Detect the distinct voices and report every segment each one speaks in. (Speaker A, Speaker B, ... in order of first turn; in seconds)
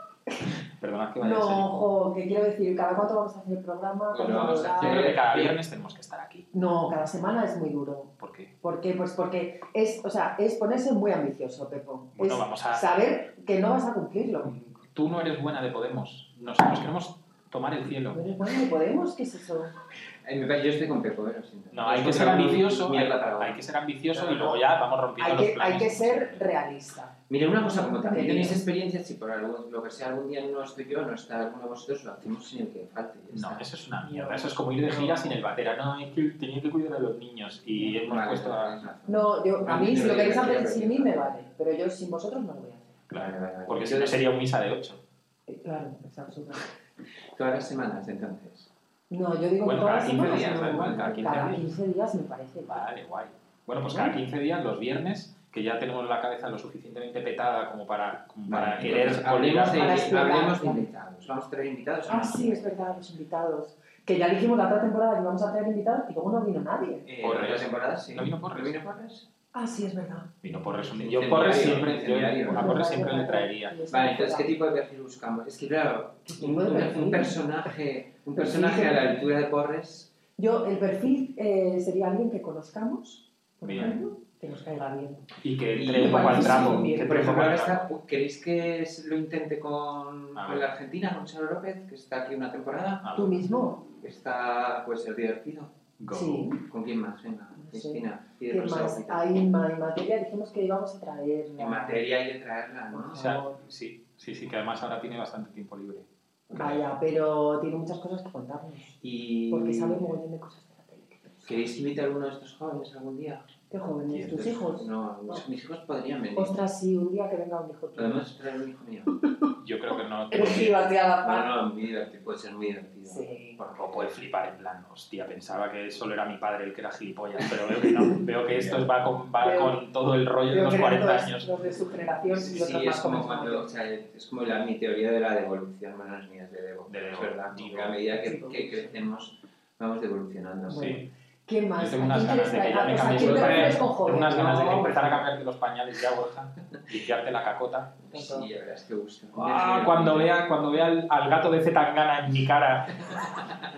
Speaker A: 0.8-1.9, 4.7-6.5, 8.2-8.5, 12.2-12.8, 14.4-18.3, 21.7-26.4, 33.3-38.8, 43.1-45.0, 49.6-51.7, 52.7-60.0, 67.2-68.8, 70.4-73.8, 83.6-84.0, 85.4-87.9, 90.3-90.7, 93.0-93.4, 96.0-96.5, 103.2-106.1, 114.1-114.5, 119.6-120.9, 123.8-131.5, 136.9-138.0, 140.7-141.1, 141.8-148.0, 149.3-153.2
Speaker B: 1.2-5.0, 6.5-14.5, 18.1-19.7, 24.1-24.6, 25.2-27.1, 28.0-28.6, 34.0-35.4, 39.1-43.0, 45.5-46.6, 49.1-52.8, 53.9-54.2, 59.7-60.9, 62.1-67.1, 69.5-70.3, 72.5-74.5, 76.3-77.4, 78.4-79.2, 80.4-85.2, 85.8-87.3, 93.2-93.8, 96.1-96.6, 97.6-102.0, 102.9-103.6, 106.5-109.0, 109.5-111.5, 113.7-115.4, 116.4-118.2, 120.3-121.5, 123.0-123.6, 129.4-129.8, 130.5-133.7, 138.1-138.9, 140.7-145.1, 148.1-148.5
Speaker C: 4.1-5.5, 20.2-23.6, 27.3-33.6, 38.0-41.3, 43.1-44.2, 47.3-48.7, 50.2-51.6, 58.5-63.1, 67.1-69.3, 71.0-72.9, 73.9-80.1, 83.8-84.0, 85.7-93.2, 93.9-95.7, 96.7-99.3, 101.6-103.3, 106.5-106.8, 109.0-110.2, 111.4-113.4, 114.3-116.6, 118.0-119.2, 121.2-124.1, 128.6-128.8, 132.3-140.9, 143.2-143.9, 144.4-145.2, 148.1-150.4